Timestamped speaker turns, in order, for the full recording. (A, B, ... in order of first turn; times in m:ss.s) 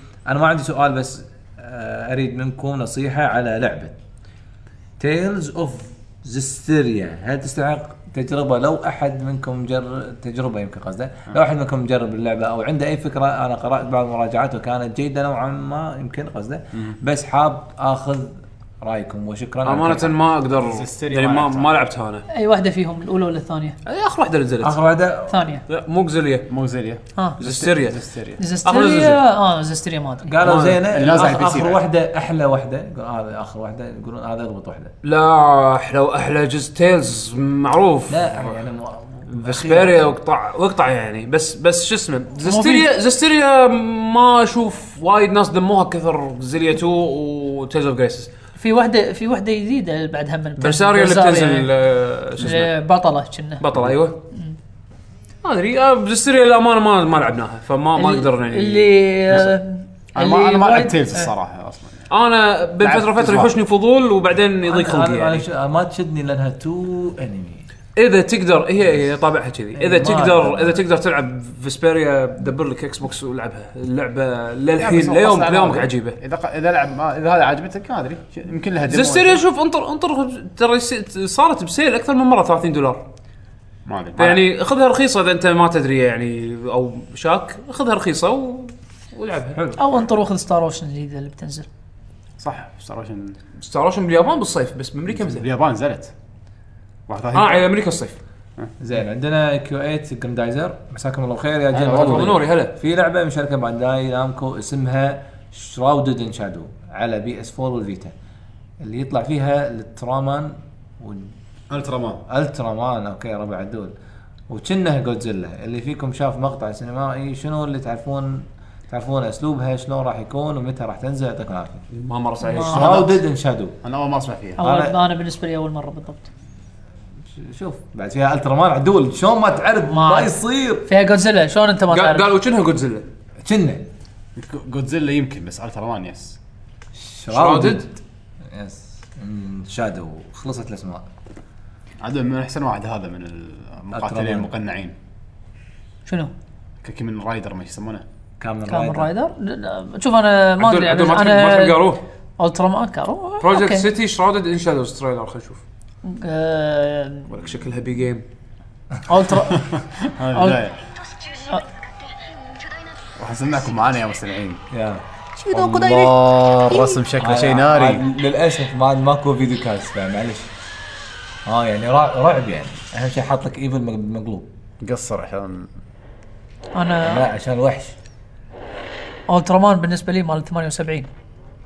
0:00.2-0:03.9 A
0:05.0-0:20.1 A
0:19.6-0:22.2 B
0:20.5-0:21.7 C
0:22.3-0:23.8 D
0:23.8-0:24.8 B
0:24.6-0:25.5 A
0:25.3-0:25.6 D
0:25.7-0:26.4 B
0:26.5-0:28.4 C
0:27.4-0:28.0 B
0:28.4-0:30.3 D
0:28.6-0:29.2 B
0:30.2-0:34.9 A
0:30.4-0:30.8 B
0:30.8-0:31.8 C
0:35.0-0:38.6 B
0:38.1-0:40.1 A
0:39.3-0:48.3 B
0:42.4-0:42.8 D
0:48.6-0:51.7 D
0:50.6-0:52.7 B
0:52.4-0:53.6 D
0:53.6-0:54.2 B
0:55.4-0:59.5 B
0:58.0-1:01.3 D
1:00.1-1:02.0 C
1:02.1-1:05.4 B
1:02.8-1:03.5 C
1:04.6-1:07.6 A
1:08.0-1:16.2 B
1:09.8-1:10.8 A
1:14.8-1:19.4 C
1:18.9-1:23.0 B
1:23.8-1:24.4 C
1:24.2-1:29.8 B
1:29.8-1:31.7 D
1:32.4-1:33.4 C
1:33.6-1:35.5 B
1:35.1-1:36.1 C
1:37.1-1:37.7 C
1:37.3-1:38.2 B
1:38.8-1:48.1 A
1:41.7-1:42.4 C
1:41.9-1:42.7 B
1:48.8-1:51.3 A
1:51.7-1:52.2 C
1:52.3-1:53.9 A
1:54.5-2:01.8 A
2:01.9-2:03.0 B
2:02.4-2:02.8 D
2:02.6-2:03.8 A
2:02.7-2:03.2 C
2:03.8-2:04.6 C
2:04.6-2:06.3 D
2:04.6-2:05.0 A
2:07.4-2:10.8 A
2:09.9-2:12.3 D
2:11.9-2:13.0 B
2:13.4-2:13.8 A
2:14.4-2:16.4 C
2:17.0-2:18.0 A
2:17.3-2:17.8 B
2:18.5-2:21.0 A
2:22.0-2:24.9 C
2:23.9-2:24.5 A
2:26.0-2:26.3 D
2:26.8-2:28.0 C
2:28.4-2:29.1 A
2:28.7-2:33.9 D
2:30.6-2:32.0 B
2:33.4-2:35.6 B
2:36.0-2:37.3 D
2:37.3-2:38.2 B
2:39.1-2:39.7 D
2:39.7-2:40.8 C
2:40.3-2:40.6 D
2:41.4-2:41.6 D
2:43.2-2:44.6 C
2:44.7-2:45.9 A
2:45.4-2:46.1 D
2:45.6-2:48.0 C
2:46.7-2:47.0 D
2:47.2-2:50.5 A
2:51.4-2:54.5 A
2:54.8-2:55.7 C
2:56.7-2:57.3 D
2:57.0-2:57.9 A
2:59.3-3:01.1 D